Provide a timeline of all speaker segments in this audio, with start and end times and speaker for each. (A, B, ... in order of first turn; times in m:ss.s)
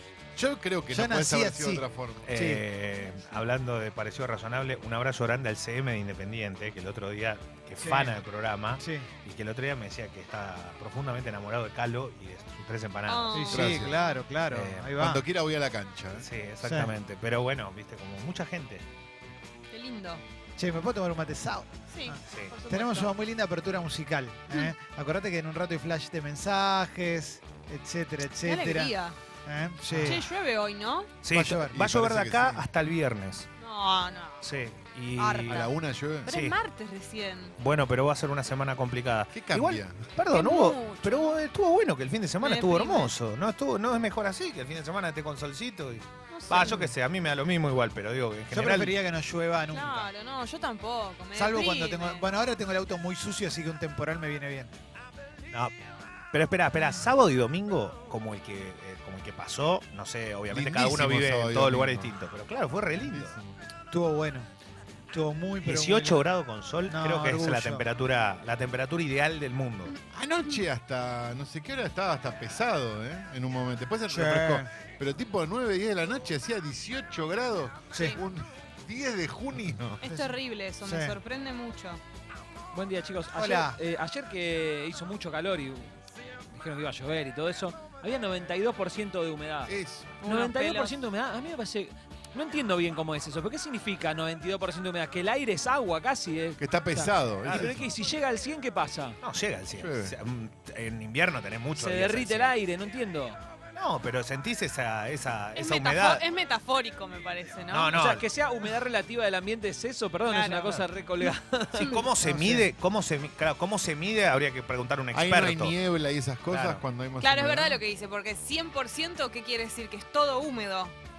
0:00.3-0:02.3 A
0:00.9-0:02.6 B
0:02.3-0:13.7 C
0:07.8-0:08.2 B
0:08.8-0:09.1 B
0:13.1-0:13.7 D
0:13.3-0:15.2 B
0:13.5-0:14.0 A
0:14.5-0:14.9 C
0:15.0-0:16.3 A
0:16.2-0:18.8 C
0:16.6-0:16.9 B
0:19.7-0:20.2 D
0:20.6-0:28.9 B
0:21.9-0:23.1 D
0:22.3-0:22.5 C
0:28.4-0:29.2 D
0:29.4-0:30.2 B
0:30.0-0:31.1 D
0:31.2-0:33.5 C
0:31.3-0:31.8 B
0:31.7-0:32.7 A
0:33.6-0:34.5 D
0:34.4-0:35.6 C
0:35.2-0:35.7 D
0:35.5-0:36.3 A
0:36.2-0:37.6 D
0:36.2-0:36.6 C
0:37.6-0:49.0 C
0:39.3-0:40.1 A
0:40.3-0:41.4 D
0:42.4-0:43.1 D
0:46.3-0:46.9 D
0:48.5-0:50.1 B
0:49.7-0:52.3 D
0:51.3-0:54.7 B
0:56.3-1:03.4 C
1:00.5-1:02.1 A
1:03.0-1:03.6 A
1:03.9-1:04.5 B
1:05.1-1:06.2 B
1:05.6-1:09.9 C
1:06.9-1:07.8 B
1:10.1-1:20.0 A
1:14.1-1:14.7 B
1:17.9-1:18.2 D
1:20.0-1:22.0 D
1:20.0-1:21.2 B
1:22.7-1:25.9 E
1:23.4-1:23.8 B
1:26.5-1:39.2 E
1:29.6-1:30.1 A
1:30.2-1:30.9 D
1:36.6-1:37.9 A
1:39.2-1:42.5 C
1:39.8-1:40.1 A
1:41.7-1:43.4 E
1:43.7-1:46.2 C
1:45.6-1:47.9 D
1:47.7-1:48.2 C
1:47.9-1:52.0 E
1:50.3-1:50.8 D
1:51.7-1:52.0 D
1:51.7-1:55.8 C
1:52.2-1:52.6 B
1:55.1-1:57.8 A
1:56.5-1:56.8 C
1:57.2-2:00.9 D